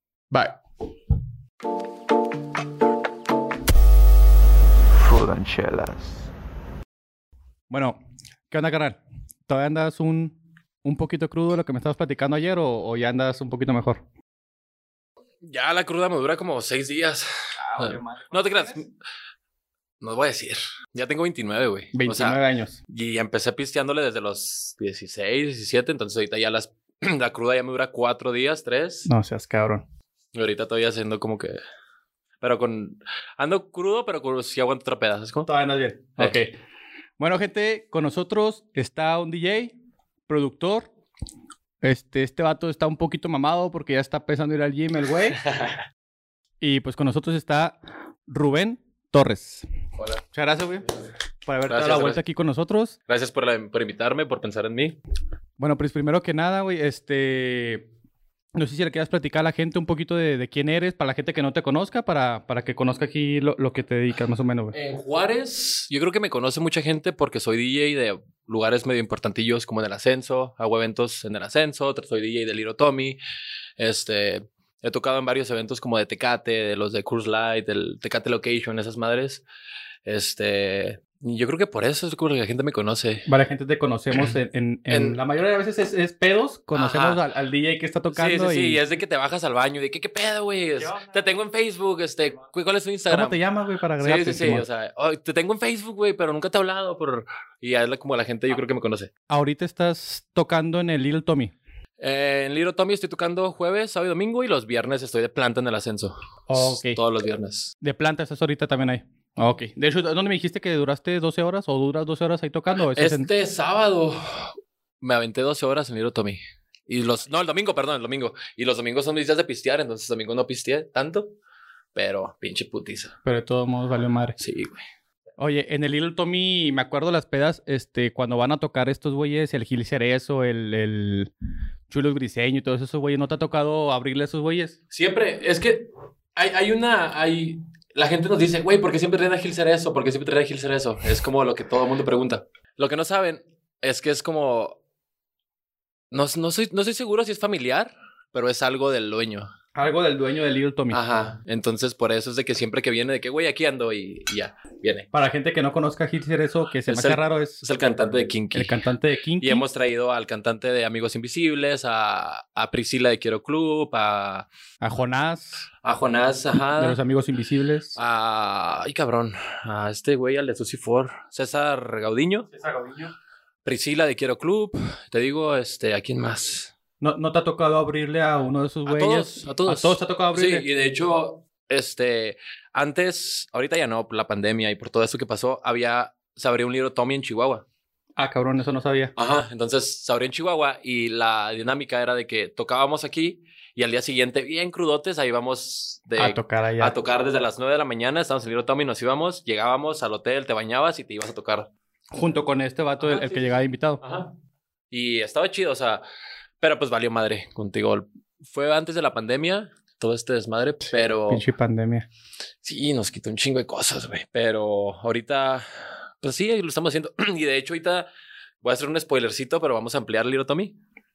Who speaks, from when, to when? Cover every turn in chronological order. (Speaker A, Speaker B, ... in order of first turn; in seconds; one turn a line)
Speaker A: 0.3-0.6
Speaker A: 5.2-6.0
Speaker A: 7.7-14.0
Speaker B: 15.4-18.9
Speaker A: 17.6-18.8
Speaker B: 20.0-29.1
Speaker A: 21.9-22.8
Speaker A: 29.1-29.8
Speaker B: 30.3-31.6
Speaker B: 32.4-35.5
Speaker A: 35.5-36.5
Speaker A: 37.2-39.7
Speaker A: 40.3-40.9
Speaker A: 41.8-45.4
Speaker B: 45.4-45.8
Speaker A: 46.6-47.8
Speaker A: 48.3-49.6
Speaker A: 50.3-50.9
Speaker A: 51.5-53.0
Speaker B: 51.7-52.2
Speaker B: 53.1-55.0
Speaker A: 55.6-57.9
Speaker A: 58.5-64.8
Speaker B: 64.7-73.2
Speaker B: 73.8-79.4
Speaker B: 80.0-83.3
Speaker A: 83.3-88.8
Speaker B: 84.9-85.2
Speaker B: 86.8-87.2
Speaker B: 88.1-93.4
Speaker A: 93.1-94.7
Speaker B: 94.0-99.1
Speaker A: 99.3-101.5
Speaker B: 102.0-107.7
Speaker A: 106.5-107.0
Speaker A: 107.8-113.3
Speaker B: 113.0-121.3
Speaker B: 121.9-123.1
Speaker A: 123.2-124.4
Speaker B: 124.4-124.8
Speaker A: 125.4-131.3
Speaker A: 131.9-134.8
Speaker B: 134.9-144.8
Speaker B: 146.1-149.5
Speaker A: 149.8-151.0
Speaker B: 150.9-155.1
Speaker A: 155.1-157.6
Speaker B: 156.9-158.8
Speaker A: 158.5-159.6
Speaker B: 159.4-164.5
Speaker A: 164.8-165.7
Speaker B: 165.8-167.0
Speaker A: 166.7-168.0
Speaker B: 168.0-172.5
Speaker A: 172.5-173.1
Speaker B: 173.7-176.7
Speaker A: 177.0-180.7
Speaker B: 178.9-187.7
Speaker A: 188.2-189.1
Speaker B: 189.2-201.7
Speaker A: 196.2-196.9
Speaker A: 202.1-204.0
Speaker B: 203.0-204.3
Speaker B: 204.9-206.0
Speaker B: 206.6-211.4
Speaker A: 211.3-212.1
Speaker B: 212.6-218.1
Speaker B: 218.6-220.8